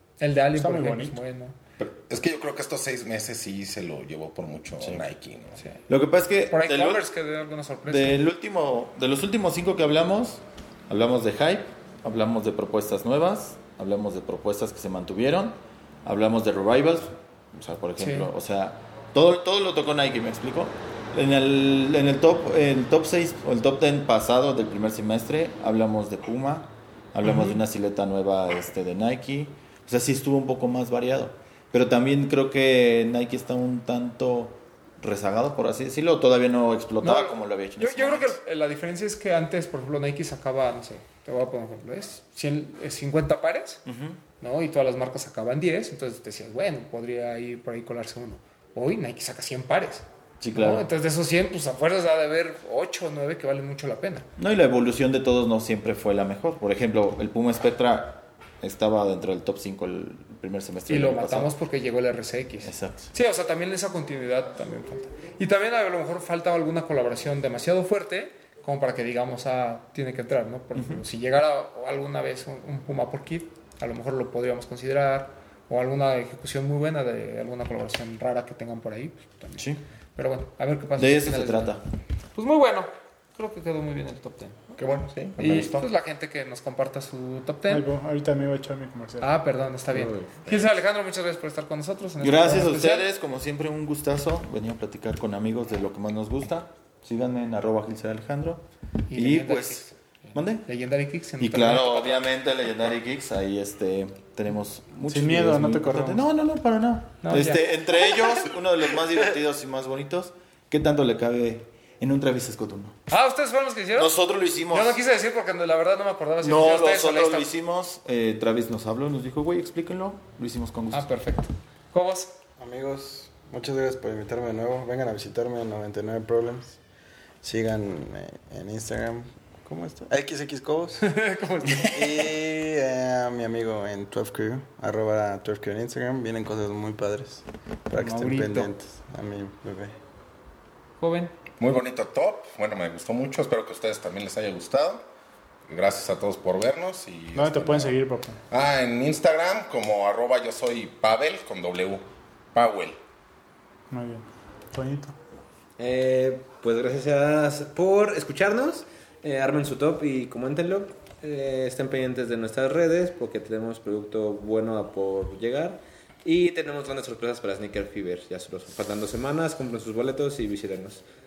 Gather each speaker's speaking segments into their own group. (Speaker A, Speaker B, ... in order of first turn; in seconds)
Speaker A: 0.2-1.6, 5.6-5.8, 6.5-8.2, 18.0-18.3, 27.2-27.6, 37.0-43.8, 44.4-54.2, 60.9-81.8, 82.3-84.7, 85.4-87.8, 89.2-93.0, 99.1-102.3, 107.2-108.4, 113.1-114.1, 114.7-117.5, 120.9-122.3, 131.0-132.0, 137.9-138.7, 141.0-141.3
Speaker B: 0.5-1.2, 87.7-89.3, 105.0-106.2, 147.3-148.4, 153.9-155.1
Speaker C: 1.8-5.6, 84.8-85.9, 141.6-145.0, 145.7-148.0, 148.5-153.0
Speaker D: 5.9-7.1, 7.9-38.4, 43.9-44.2, 50.4-50.9, 54.4-61.5, 62.6-63.1, 70.7-71.0, 79.6-79.8, 81.0-81.8, 92.2-100.7, 101.4-113.0, 114.0-115.0, 116.4-121.1
Speaker E: 89.9-90.3, 155.8-171.0
Speaker F: 122.6-126.8, 127.4-131.1, 131.8-139.9